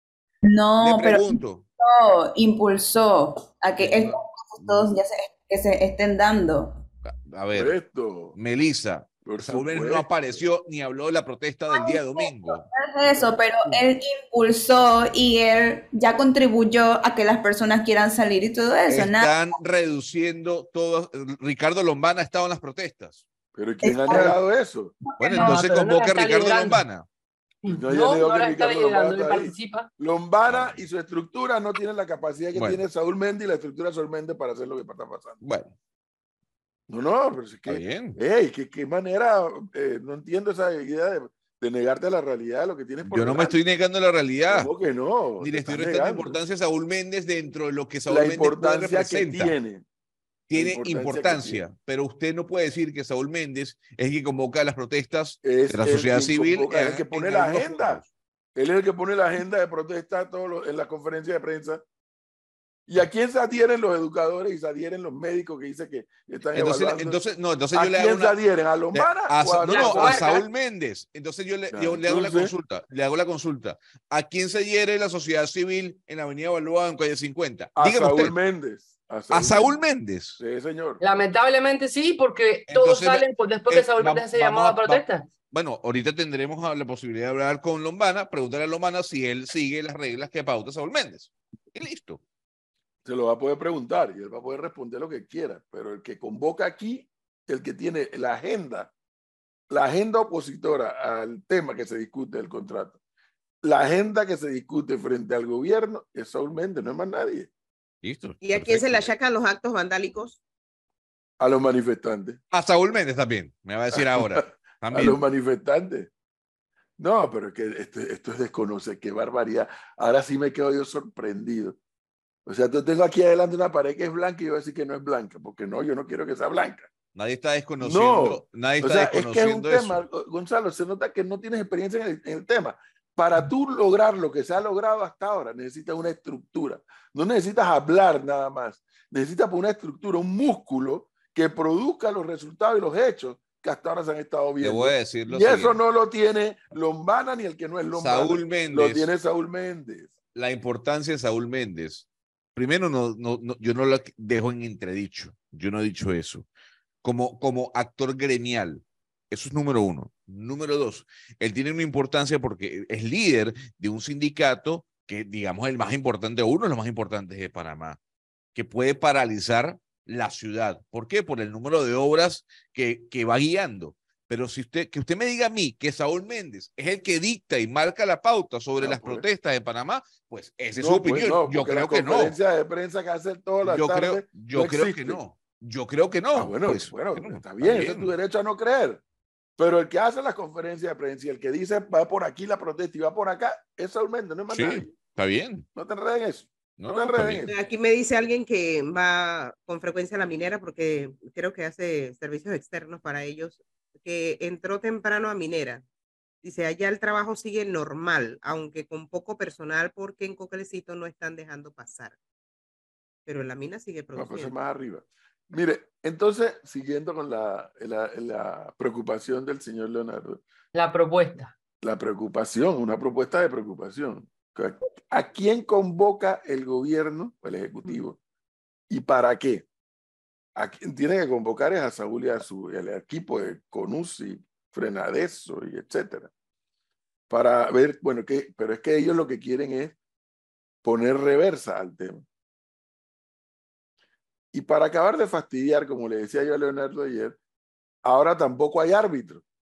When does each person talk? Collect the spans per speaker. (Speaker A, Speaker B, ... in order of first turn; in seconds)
Speaker A: 0.5-6.8, 11.7-19.4, 23.8-24.4, 25.1-25.6
Speaker B: 0.8-1.6, 3.8-4.9, 7.1-7.8, 8.4-12.7, 18.9-23.2, 25.2-27.1, 30.5-30.8, 32.5-32.8, 35.4-35.7, 37.7-38.2, 43.1-44.7, 45.4-49.5, 50.5-58.1, 66.5-68.4, 68.9-78.3, 79.3-80.4, 82.7-92.2, 108.0-109.1, 112.5-115.2, 127.2-130.0, 144.6-145.8, 148.0-149.1, 150.3-156.5, 157.0-168.0, 168.6-182.4, 183.6-188.1, 194.5-195.7, 196.8-197.4
Speaker C: 7.5-8.4, 9.2-10.4, 23.6-24.9, 27.7-35.4, 36.9-43.6, 44.5-46.4, 48.1-49.9, 50.5-51.6, 55.4-58.0, 58.5-61.8, 62.9-67.2, 67.7-70.4, 71.7-72.5, 77.8-79.8, 80.4-81.0, 93.0-98.9, 99.7-103.0, 103.6-107.5, 111.4-112.4, 113.9-116.1, 117.0-121.8, 122.5-126.9, 127.8-150.1, 178.8-179.3, 180.8-185.2, 186.3-189.0, 189.6-195.0, 195.8-197.6, 214.2-220.4, 221.8-228.2, 228.9-229.7, 230.6-236.3, 237.3-240.0, 240.8-242.2, 244.5-247.4, 248.0-249.4
Speaker D: 25.4-26.9, 27.6-29.9, 69.7-70.4, 81.0-85.3, 220.7-221.5
Speaker E: 108.4-110.4, 197.5-205.8, 206.4-212.2, 213.3-214.5